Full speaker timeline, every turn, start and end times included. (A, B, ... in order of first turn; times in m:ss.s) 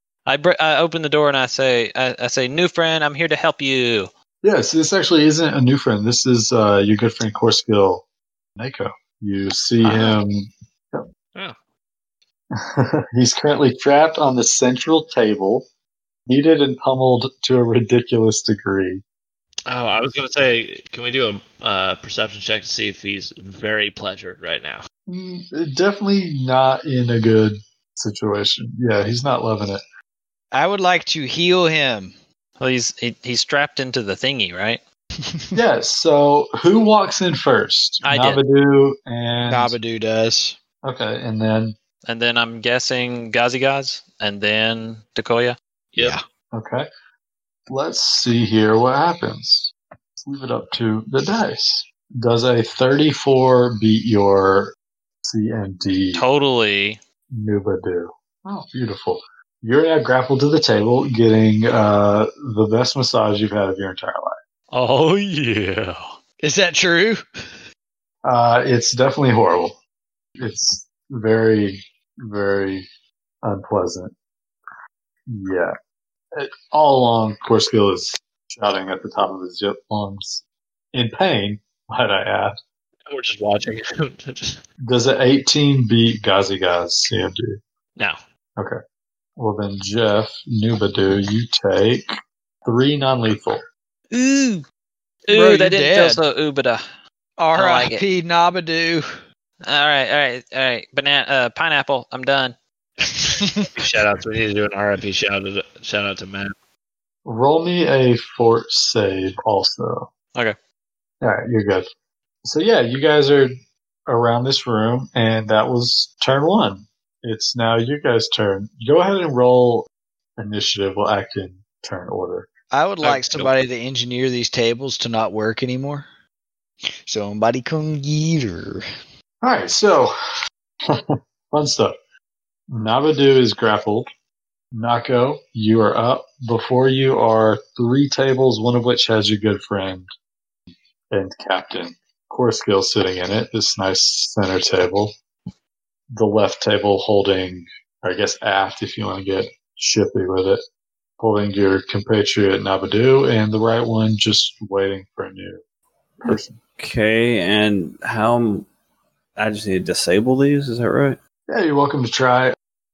0:00.3-0:04.1 A
0:04.4-0:08.0 B
0:08.6-0:11.0 B
0:09.8-0:10.2 C
0:12.5-0:15.6 B
0:16.3-0:19.0 B
0:19.7-0:24.8 C
0:25.1-0:29.8 B
0:30.5-0:32.1 D
0:32.6-0:34.8 A
0:35.3-0:35.6 D
0:35.5-0:39.8 B
0:38.0-0:38.4 A
0:39.5-0:40.6 D
0:40.8-0:41.8 B
0:42.1-0:45.6 A
0:46.5-0:46.9 B
0:47.7-0:56.2 B
0:56.1-0:57.0 A
0:57.3-1:04.4 B
1:04.7-1:06.0 A
1:06.4-1:07.2 D
1:08.2-1:09.8 B
1:10.4-1:12.8 B
1:13.4-1:14.1 B
1:15.3-1:15.7 B
1:16.4-1:22.6 B
1:23.1-1:24.6 C
1:24.8-1:27.6 B
1:29.4-1:32.1 B
1:32.6-1:33.6 B
1:34.1-1:34.6 A
1:35.3-1:36.8 A
1:35.3-1:36.2 D
1:37.4-1:39.1 D
1:37.5-1:38.0 A
1:39.6-1:42.6 A
1:43.0-1:46.5 C
1:43.2-1:43.7 D
1:47.2-1:50.1 B
1:51.2-1:51.9 B
1:52.4-1:53.5 B
1:54.1-2:02.5 B
2:02.7-2:06.1 D
2:03.0-2:03.5 C
2:07.1-2:08.8 D
2:09.4-2:10.1 B
2:10.9-2:11.9 B
2:12.7-2:14.1 B
2:14.7-2:20.1 B
2:21.1-2:25.1 B
2:26.1-2:30.6 B
2:31.2-2:35.6 B
2:36.2-2:36.6 B
2:36.2-2:38.7 E
2:39.4-2:41.2 E
2:41.5-2:42.6 B